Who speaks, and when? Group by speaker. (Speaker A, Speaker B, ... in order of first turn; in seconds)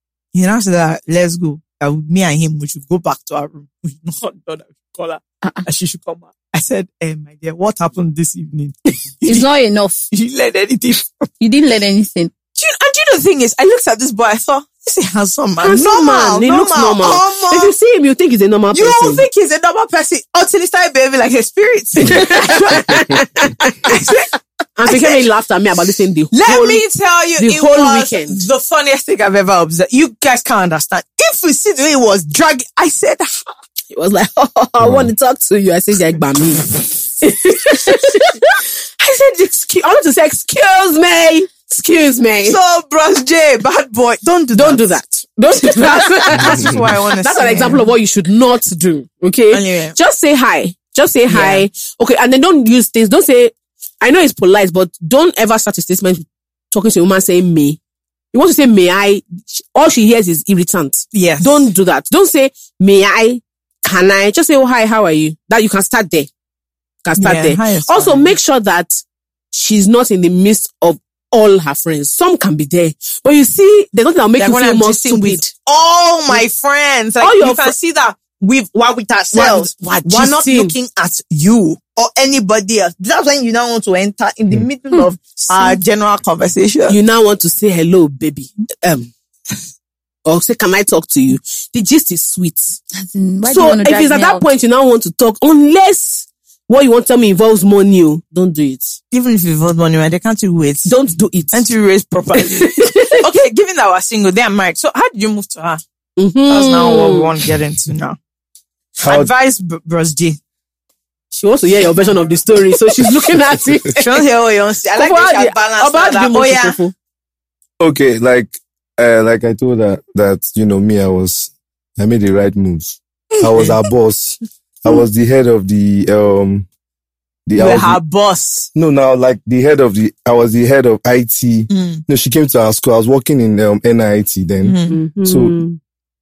Speaker A: 0.3-9.5, 10.1-11.3, 12.6-17.8, 18.7-23.2, 23.9-24.3, 24.9-25.3, 26.3-33.5, 42.5-44.8, 45.8-47.9, 49.5-50.0, 51.3-51.7, 61.1-61.7, 67.2-68.3, 74.4-87.0, 99.1-100.9, 101.5-105.8, 106.5-108.2, 109.0-110.4, 114.0-116.8, 127.6-128.7, 131.7-132.0, 134.6-135.0
Speaker B: 9.2-10.0, 11.4-12.3, 84.9-85.8, 93.0-94.4
Speaker C: 15.6-19.2, 22.0-24.1, 24.8-26.9, 27.4-28.4, 33.9-42.6, 44.5-57.8, 58.3-66.3, 67.0-69.0, 69.5-75.5, 77.2-77.8, 79.3-80.7, 86.9-89.1, 90.3-92.8, 93.5-99.0, 100.8-101.7, 102.4-103.2, 106.2-107.3, 111.3-114.2, 115.0-116.9, 134.9-135.8
Speaker D: 34.8-35.1, 109.0-109.3, 117.8-126.7, 127.5-128.0, 128.7-135.6